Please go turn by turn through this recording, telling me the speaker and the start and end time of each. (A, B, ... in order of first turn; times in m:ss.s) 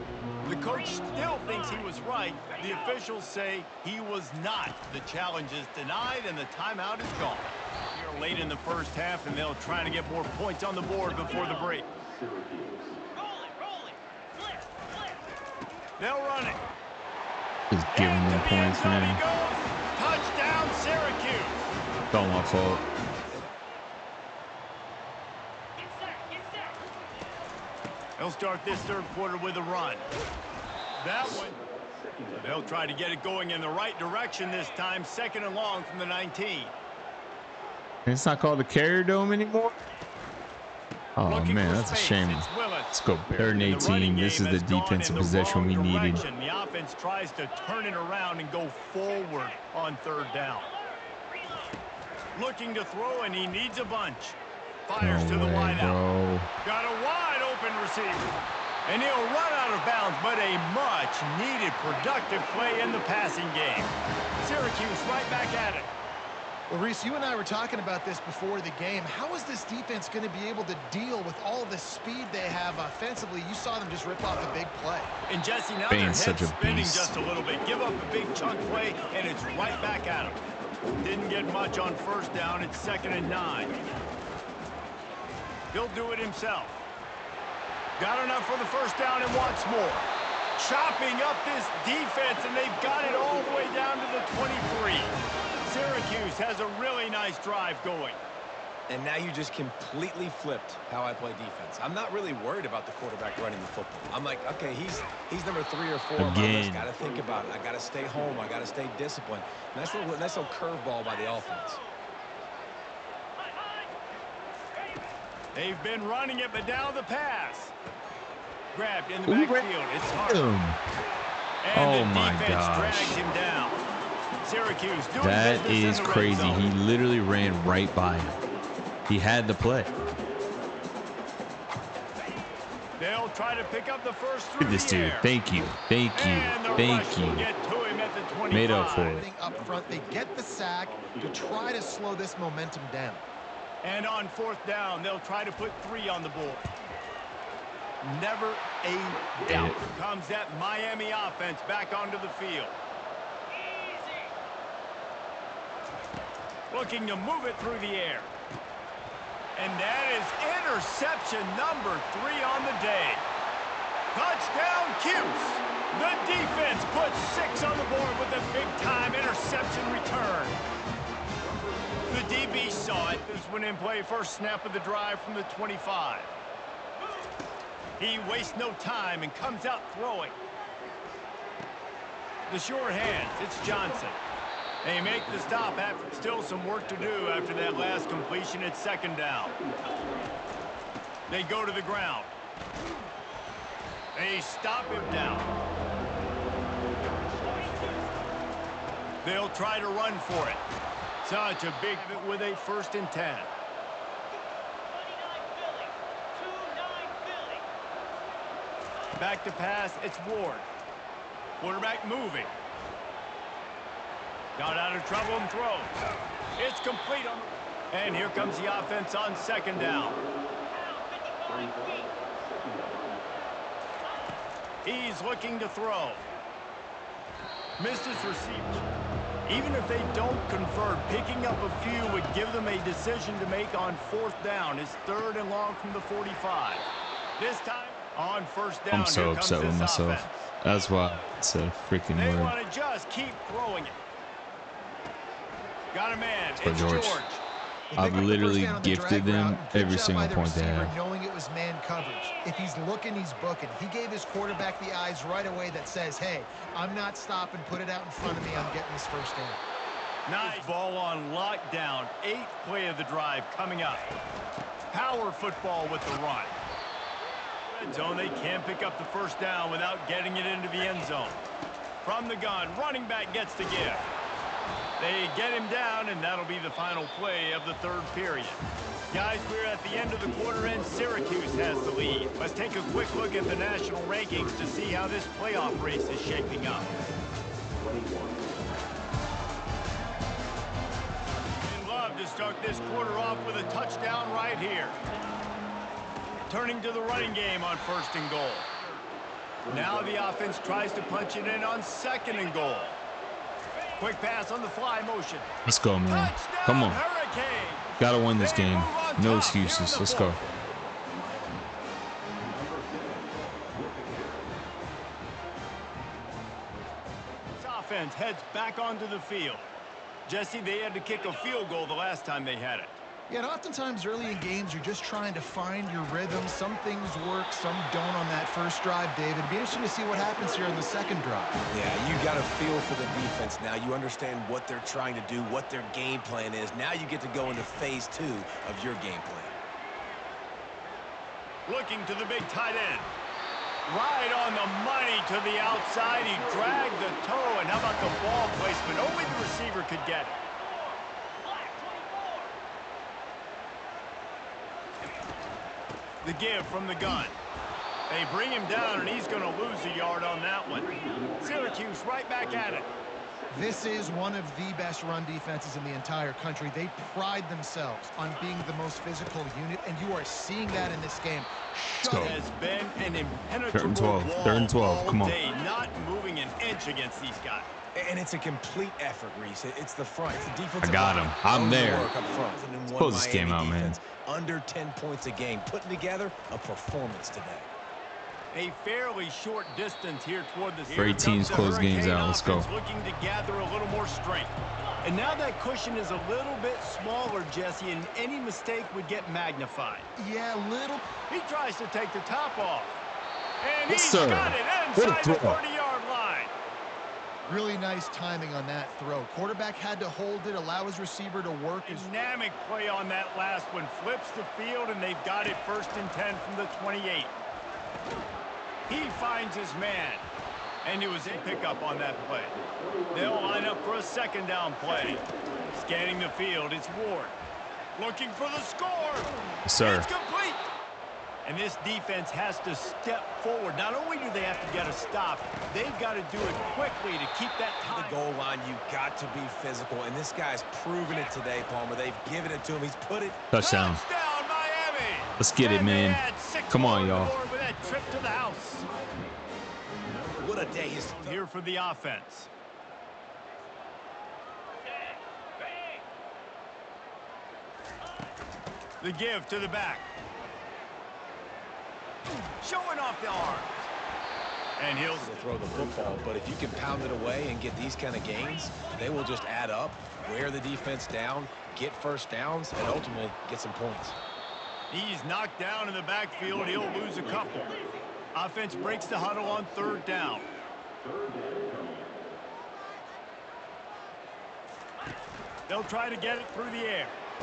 0:00.5-0:11.9 A
0:16.0-0:16.6 A
0:17.7-0:19.2 B
0:17.9-0:21.6 A
0:22.1-0:22.8 B
0:28.2-0:30.1 A
0:31.0-0:31.6 A
0:32.3-0:36.7 A
0:38.1-0:39.8 B
0:41.2-0:46.2 B
0:41.3-0:50.7 A
0:52.4-0:54.4 A
0:54.9-0:56.0 A
0:55.0-0:56.5 B
0:56.6-0:58.3 A
0:58.9-1:05.9 A
1:06.7-1:15.1 C
1:15.3-1:20.4 A
1:15.9-1:17.2 B
1:21.0-1:23.7 A
1:25.7-1:26.8 A
1:28.0-1:35.1 A
1:35.6-1:38.2 A
1:38.9-1:51.8 D
1:46.2-1:46.9 B
1:55.6-1:57.7 A
1:58.7-2:00.5 A
1:59.3-2:00.8 B
2:01.6-2:03.8 A
2:01.7-2:03.2 B
2:04.4-2:06.7 A
2:05.2-2:08.4 B
2:09.1-2:09.9 B
2:13.0-2:15.3 A
2:14.6-2:17.5 B
2:16.1-2:19.2 A
2:18.5-2:19.3 B
2:19.0-2:23.2 C
2:23.8-2:26.7 A
2:28.0-2:32.8 A
2:29.5-2:29.8 B
2:36.7-2:38.3 A
2:39.6-2:43.2 A
2:44.1-2:50.6 A
2:52.1-2:56.3 A
2:58.0-3:00.4 A
3:02.5-3:04.2 A
3:04.8-3:09.6 A
3:11.3-3:12.3 A
3:14.2-3:15.5 A
3:19.2-3:20.6 A
3:21.2-3:23.5 A
3:29.2-3:30.7 A
3:31.6-3:32.5 A
3:34.6-3:36.0 A
3:36.6-3:40.2 A
3:44.8-3:46.2 A
3:47.8-3:48.8 A
3:49.5-3:56.8 A
3:57.4-4:00.5 A
3:58.9-4:02.6 B
4:02.1-4:04.0 A
4:05.9-4:07.4 A
4:06.6-4:07.2 B
4:07.9-4:19.6 C
4:08.0-4:10.9 B
4:20.3-4:24.0 A
4:24.9-4:26.6 A
4:27.7-4:31.4 A
4:32.0-4:34.1 A
4:35.0-4:46.9 A
4:51.6-4:55.0 A
4:56.5-4:58.7 A
4:59.7-5:03.0 A
5:04.0-5:05.5 A
5:05.7-5:07.0 B
5:06.1-5:10.4 A
5:08.0-5:10.4 B
5:17.6-5:19.7 A
5:20.3-5:23.0 A
5:23.3-5:31.6 C
5:31.7-5:39.5 D
5:41.7-5:43.1 A
5:43.9-5:50.4 A
5:56.2-5:57.4 A
5:58.1-6:02.9 A
6:03.5-6:12.4 C
6:12.0-6:12.4 B
6:12.1-6:17.7 A
6:13.7-6:15.4 B
6:18.0-6:27.7 D
6:20.8-6:22.1 B
6:22.9-6:24.0 B
6:28.5-6:40.1 A
6:30.9-6:32.7 B
6:40.2-6:41.1 C
6:41.3-6:43.0 A
6:43.6-6:46.5 A
6:43.9-6:45.6 B
6:47.5-6:52.1 C
6:51.9-6:57.3 A
6:58.9-7:00.2 A
7:00.8-7:02.6 A
7:03.1-7:07.4 A
7:08.0-7:10.7 A
7:09.6-7:10.1 B
7:11.4-7:18.2 A
7:17.9-7:23.4 D
7:23.5-7:24.0 B
7:23.6-7:28.9 A
7:25.4-7:27.4 B
7:30.4-7:31.4 D
7:31.1-7:32.5 A
7:39.0-7:40.0 A
7:42.6-7:43.9 A
7:44.8-7:45.4 A
7:45.1-7:54.2 D
7:54.9-7:57.8 A
7:58.3-8:00.5 A
8:05.7-8:07.2 A